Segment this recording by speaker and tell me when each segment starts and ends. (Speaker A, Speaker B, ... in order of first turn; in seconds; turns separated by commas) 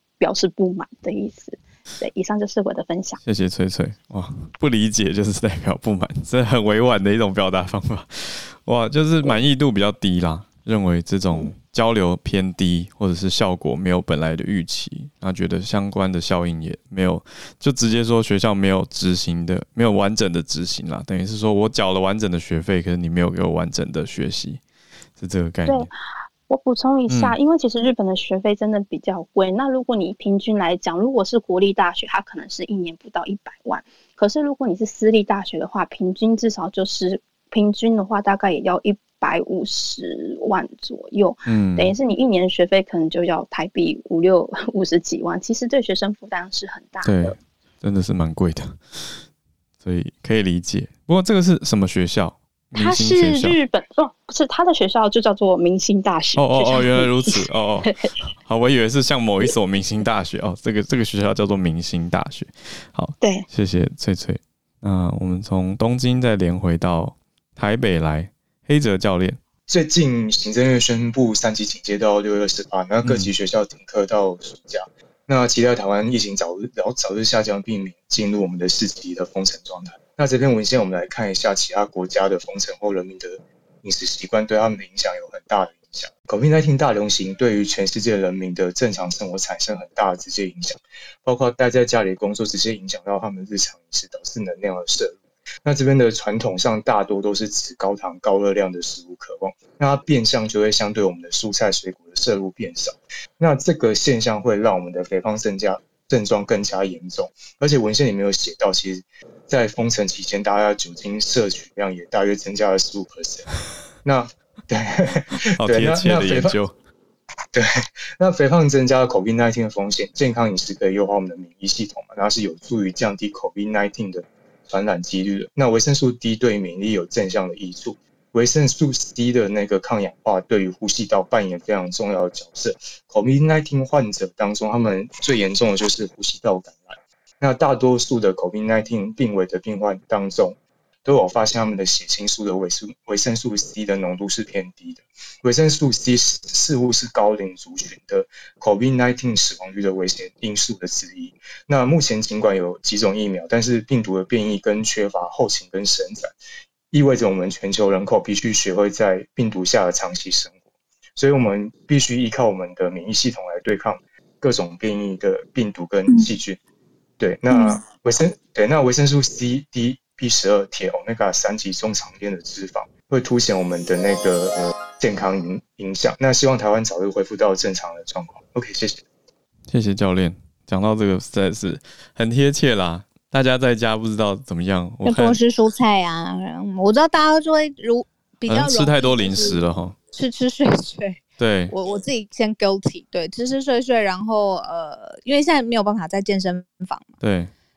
Speaker A: 0.2-3.2, Speaker B: 3.2-24.6, Speaker B: 25.2-25.9, Speaker A: 26.5-47.4, Speaker B: 27.1-27.4, Speaker B: 41.5-41.9, Speaker B: 47.0-49.2, Speaker B: 49.8-53.6, Speaker A: 52.7-58.1, Speaker B: 56.4-57.9, Speaker B: 58.5-69.4, Speaker C: 69.7-113.5, Speaker B: 73.0-73.3, Speaker C: 114.0-116.6, Speaker B: 115.5-116.7, Speaker C: 118.2-156.3, Speaker C: 156.9-160.6, Speaker C: 161.2-166.6, Speaker C: 167.2-179.0, Speaker B: 179.7-185.4, Speaker D: 185.0-189.6, Speaker B: 188.5-190.0, Speaker D: 190.1-197.1, Speaker B: 191.4-191.7, Speaker B: 197.2-197.5